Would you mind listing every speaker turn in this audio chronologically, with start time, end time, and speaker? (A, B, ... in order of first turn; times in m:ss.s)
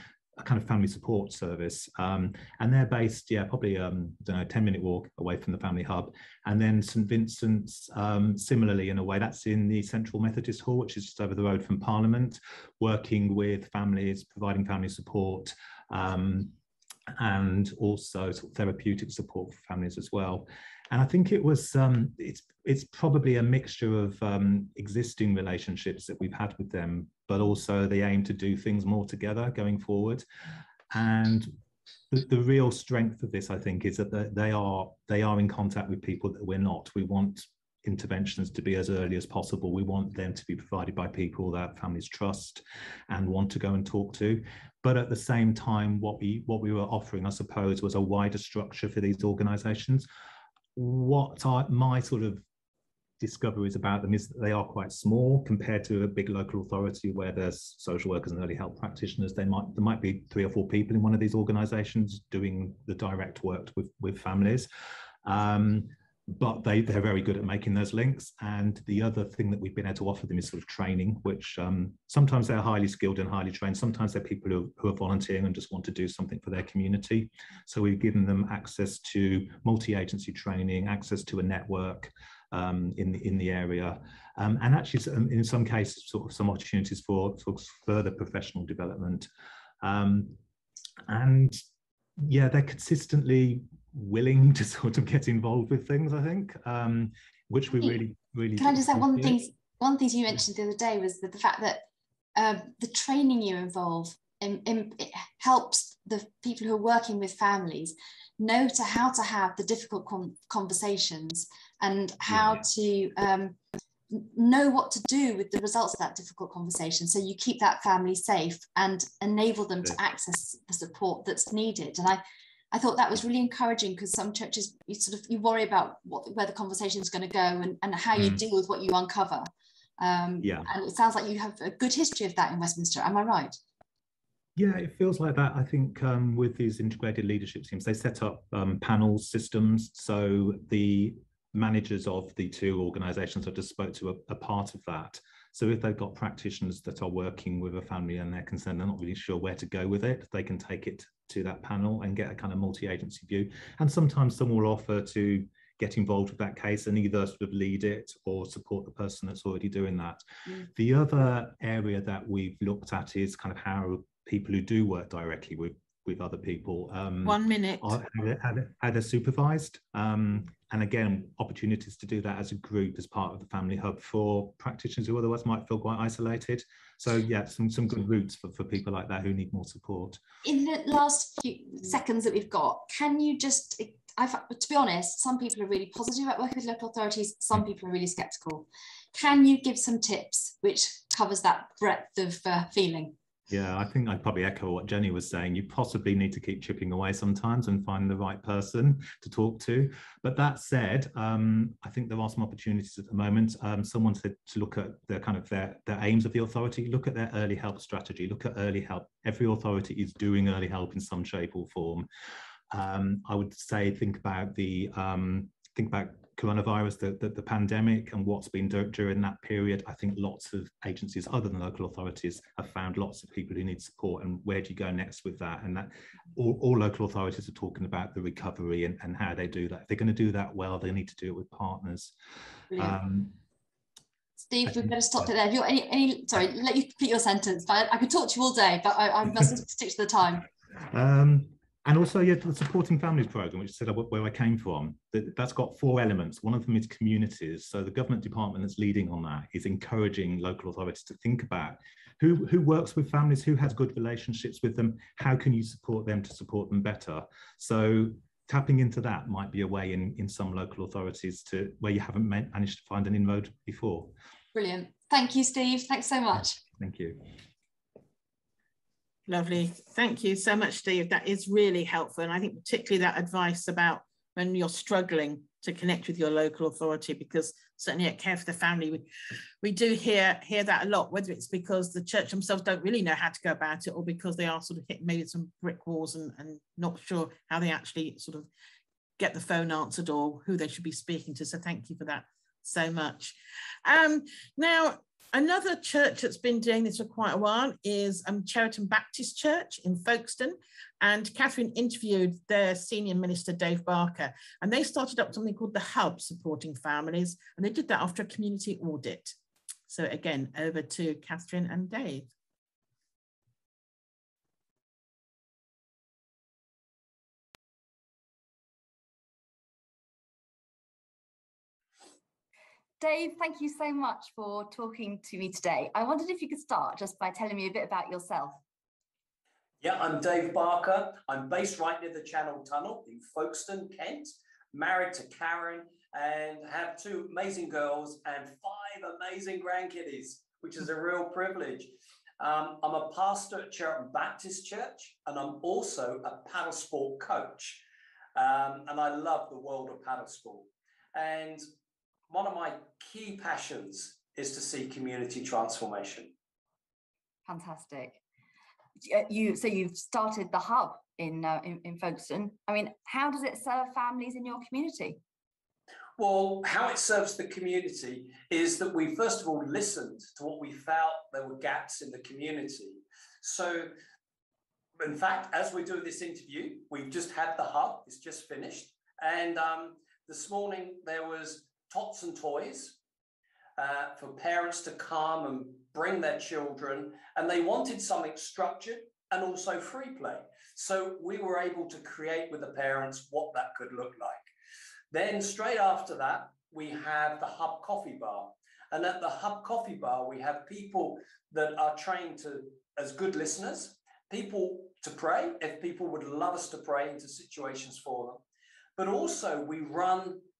0:00.4-0:16.5 A
0:17.1-0:30.2 A
0:30.9-0:31.5 A
0:32.1-0:50.1 A
0:50.8-0:52.4 A
0:53.2-1:04.7 A
1:05.2-1:29.3 A
1:29.8-1:30.4 A
1:31.0-1:31.6 A
1:32.2-1:39.4 A
1:38.6-1:41.8 B
1:42.3-1:53.6 B
1:52.3-1:52.6 A
1:54.1-2:13.6 B
2:10.4-2:10.7 A
2:14.6-3:00.2 A
2:47.2-2:48.0 C
3:00.4-3:13.1 B
3:13.5-3:32.1 A
3:32.7-3:52.1 A
3:52.8-3:53.3 A
3:54.5-4:00.4 B
3:54.6-3:54.9 A
4:00.9-4:24.1 A
4:24.5-4:26.6 B
4:26.7-4:27.3 A
4:29.3-4:39.0 C
4:39.6-4:48.5 C
4:49.2-5:09.3 C
5:09.9-5:12.3 C
5:23.0-5:28.6 B
5:29.8-5:47.8 D
5:48.3-5:51.6 D
5:52.3-5:56.3 D
5:57.5-5:58.2 B
5:59.0-6:05.2 B
6:06.2-6:13.9 D
6:15.0-6:23.0 D
6:23.8-6:34.5 D
6:35.1-6:48.4 D
6:49.0-6:50.4 D